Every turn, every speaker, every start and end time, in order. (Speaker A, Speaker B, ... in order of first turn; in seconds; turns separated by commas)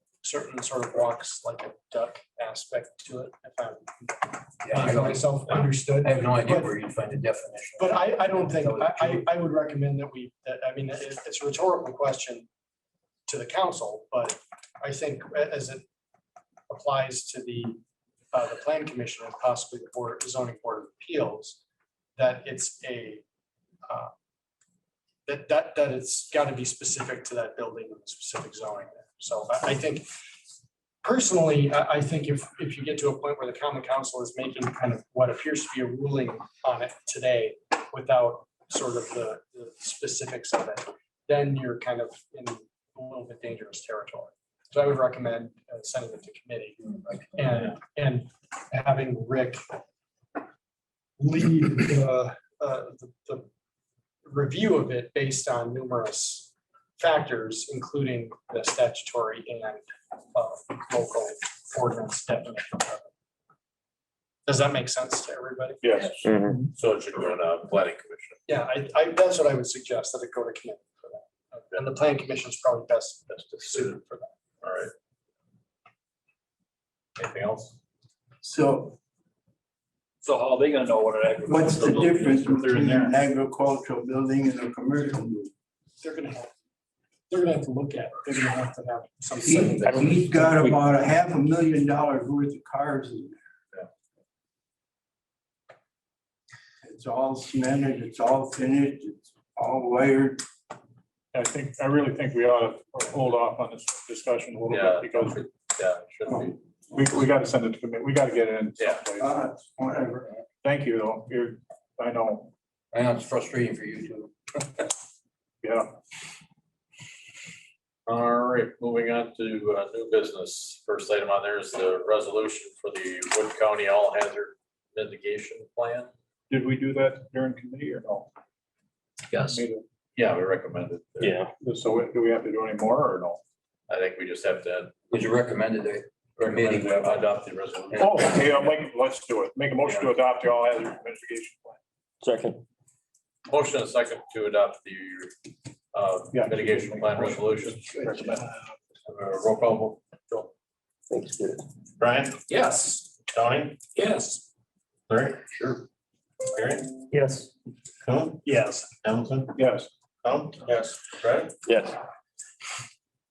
Speaker A: 0.2-6.7, Speaker B: 4.6-9.3, Speaker A: 7.8-12.5, Speaker A: 13.3-15.8, Speaker A: 16.7-17.8, Speaker A: 18.3-21.6, Speaker A: 22.2-23.2, Speaker A: 23.9-24.1, Speaker A: 25.3-30.1, Speaker A: 31.0-46.8, Speaker A: 47.3-49.6, Speaker A: 51.2-53.5, Speaker A: 54.2-63.1, Speaker A: 64.5-66.3, Speaker C: 65.8-66.7, Speaker D: 66.2-66.6, Speaker E: 66.8-68.4, Speaker A: 68.5-74.3, Speaker E: 73.3-74.0, Speaker E: 74.6-74.9, Speaker E: 77.2-77.8, Speaker F: 78.4-79.0, Speaker G: 80.2-83.1, Speaker F: 81.5-85.5, Speaker A: 86.0-86.5, Speaker A: 87.3-90.1, Speaker F: 89.4-93.4, Speaker D: 89.9-90.8, Speaker F: 96.8-100.4, Speaker C: 101.3-105.4, Speaker E: 104.7-106.6, Speaker C: 106.9-109.5, Speaker E: 108.8-109.1, Speaker F: 109.2-110.3, Speaker C: 110.6-112.5, Speaker B: 112.9-114.9, Speaker C: 115.6-115.9, Speaker E: 118.1-126.1, Speaker C: 126.5-128.3, Speaker C: 129.4-129.8, Speaker E: 130.2-131.4, Speaker D: 131.2-131.5, Speaker C: 131.6-133.4, Speaker E: 133.9-135.0, Speaker B: 135.1-137.4, Speaker E: 136.4-138.1, Speaker C: 137.9-141.8, Speaker B: 138.0-138.6, Speaker E: 139.8-140.1, Speaker D: 142.2-142.6, Speaker E: 143.5-145.3, Speaker E: 145.9-148.0, Speaker C: 146.3-148.5, Speaker E: 149.1-150.5, Speaker D: 151.1-151.6, Speaker E: 152.0-152.4, Speaker G: 152.5-153.1, Speaker E: 153.3-153.8, Speaker G: 153.9-154.4, Speaker E: 155.1-155.8, Speaker E: 156.5-156.8, Speaker E: 159.0-159.4, Speaker C: 159.6-159.9, Speaker D: 161.7-162.0